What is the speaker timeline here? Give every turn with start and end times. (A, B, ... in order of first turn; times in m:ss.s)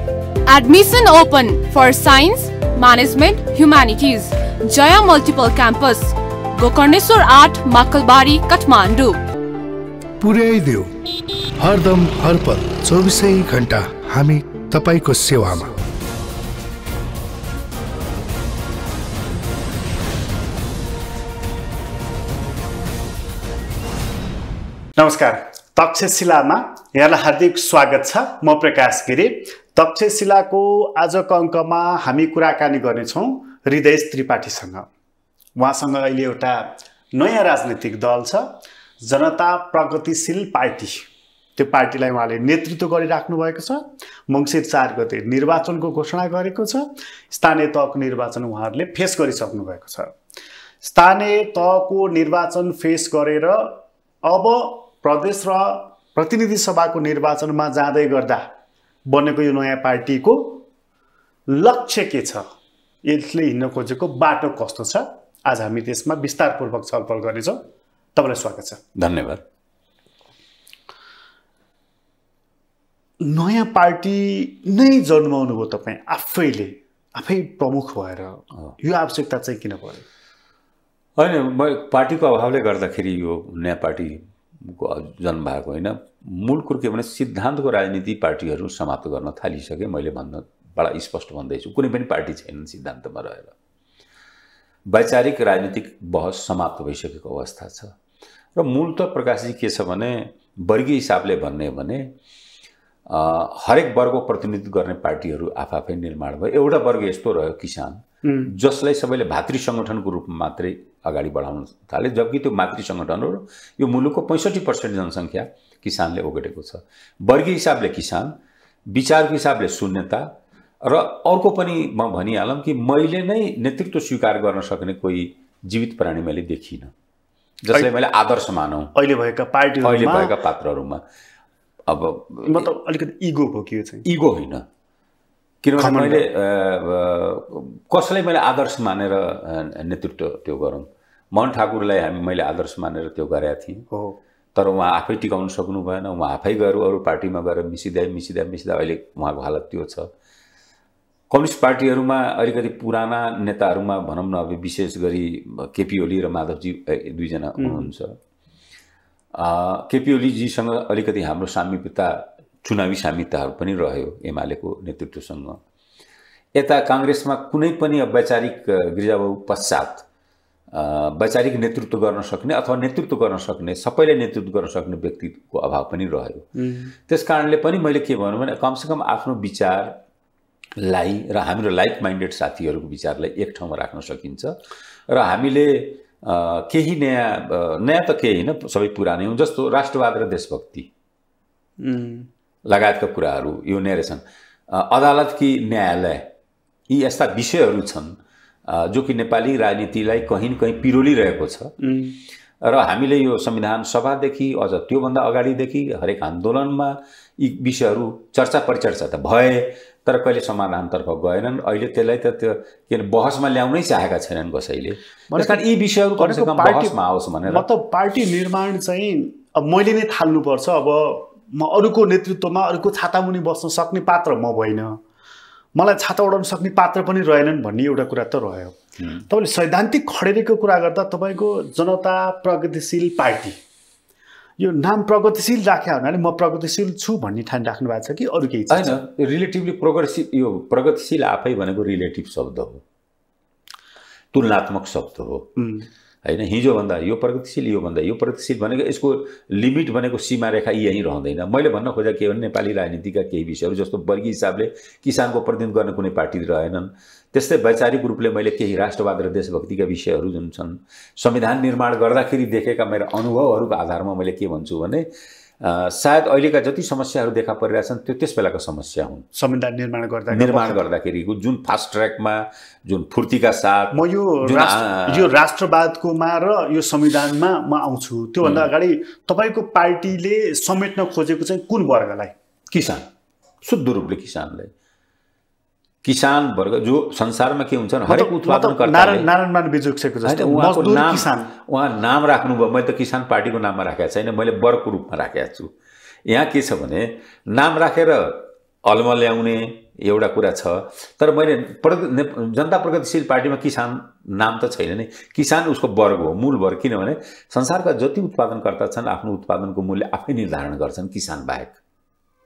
0:00.5-0:09.2 A
0:10.2-0:10.9 B
0:11.6-0:15.8 B
0:25.0-0:34.9 C
0:35.6-0:50.1 C
0:50.8-0:58.5 C
0:59.0-1:00.6 C
1:01.5-1:02.4 C
1:03.0-1:07.6 C
1:08.1-1:08.8 C
1:08.9-1:09.4 D
1:13.2-1:20.0 C
1:21.2-1:33.5 D
1:34.9-1:37.9 D
1:38.6-1:42.1 D
1:43.1-1:58.4 D
1:48.2-1:48.5 C
1:58.9-2:06.9 D
2:07.6-2:08.9 D
2:08.9-2:10.3 C
2:09.8-2:11.0 D
2:11.9-2:12.7 D
2:12.4-2:14.0 C
2:14.0-2:14.6 D
2:15.6-2:23.8 D
2:15.8-2:16.2 C
2:23.9-2:24.2 C
2:24.5-2:30.1 D
2:31.3-2:38.2 D
2:37.6-2:37.9 C
2:39.3-2:45.6 D
2:46.5-2:50.0 D
2:50.7-2:56.5 D
2:56.6-2:56.9 C
2:57.1-3:00.0 D
3:00.8-3:04.6 D
3:05.1-3:10.9 D
3:11.8-3:12.3 C
3:12.6-3:16.3 D
3:16.9-3:21.7 D
3:21.8-3:22.2 C
3:22.6-3:37.6 D
3:35.3-3:35.6 C
3:36.2-3:36.9 C
3:37.5-3:45.0 C
3:45.8-3:48.8 C
3:49.0-3:49.2 D
3:49.3-3:53.6 C
3:54.6-3:59.0 C
3:58.7-4:02.8 D
4:04.3-4:05.5 D
4:05.6-4:05.9 C
4:06.2-4:25.1 D
4:25.6-4:29.2 D
4:29.3-4:30.8 C
4:30.3-4:35.3 D
4:33.9-4:42.3 C
4:38.4-4:38.7 D
4:42.7-4:43.1 D
4:43.6-4:44.7 D
4:46.0-4:49.3 D
4:48.1-4:51.5 C
4:50.2-4:55.7 D
4:56.2-5:11.8 D